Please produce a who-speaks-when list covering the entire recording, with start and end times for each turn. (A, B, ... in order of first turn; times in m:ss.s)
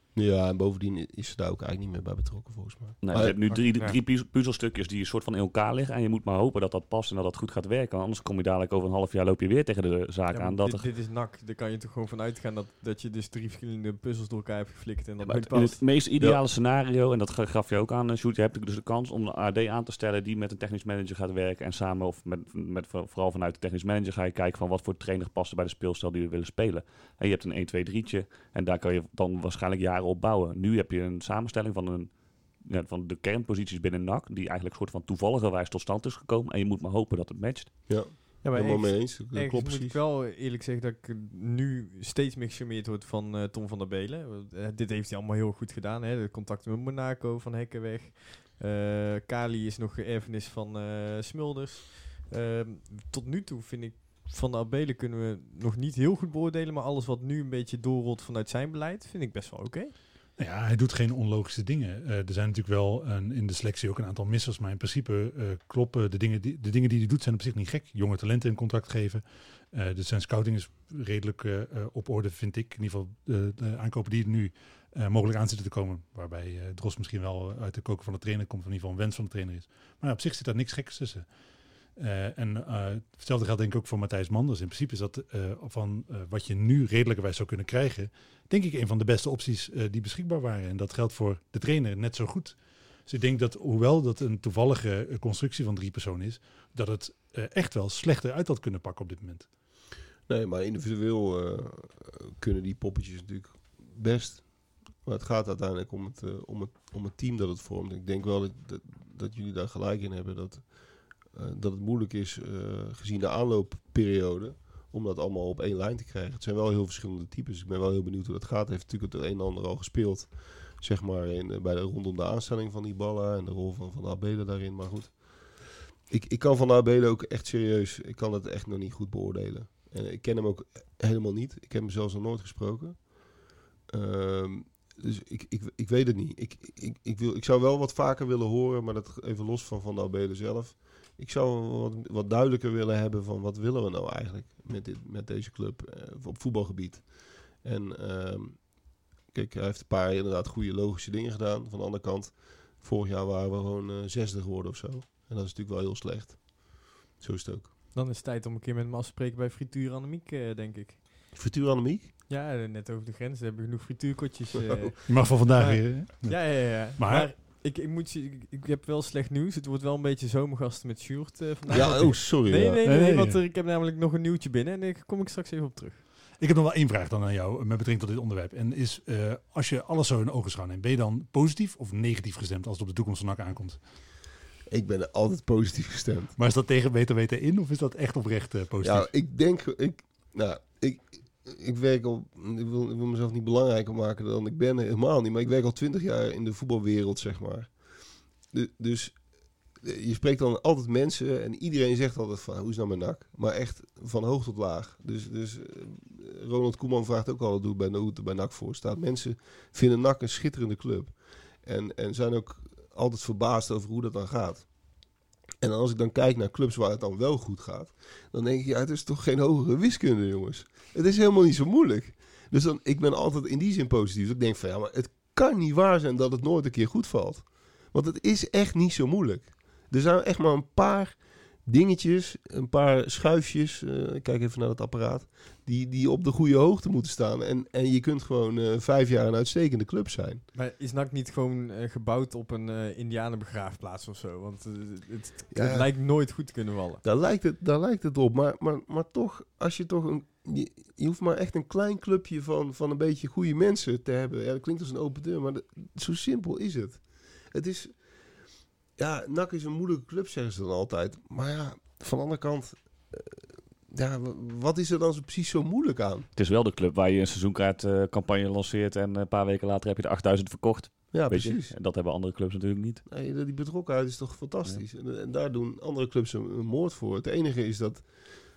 0:00.2-0:03.4 A
0:03.0-0:10.9 B
0:03.5-0:04.0 C
0:10.3-0:15.8 C
0:15.2-0:37.9 B
0:37.9-0:40.0 A
0:38.4-0:59.9 C
1:00.4-1:21.3 D
1:22.0-1:39.5 D
1:40.3-1:50.7 A
1:51.3-2:05.1 A
2:06.1-2:13.1 A
2:13.9-2:27.1 A
2:27.6-2:28.6 A
2:29.3-2:37.7 A
2:37.9-2:41.2 C
2:41.3-2:42.1 A
2:42.3-2:56.0 C
2:44.7-2:44.9 A
2:45.1-2:47.3 D
2:51.7-2:52.8 A
2:52.8-2:53.4 D
2:56.4-3:03.8 D
3:04.7-3:06.4 A
3:06.4-3:09.1 D
3:08.8-3:17.7 A
3:18.5-3:19.2 A
3:19.8-3:31.1 A
3:31.6-3:34.7 A
3:35.6-4:00.4 A
4:00.6-4:07.0 C
4:05.5-4:05.9 A
4:07.0-4:17.9 A
4:19.0-4:26.3 A
4:26.4-4:33.0 B
4:31.1-4:31.7 A
4:33.1-4:38.1 A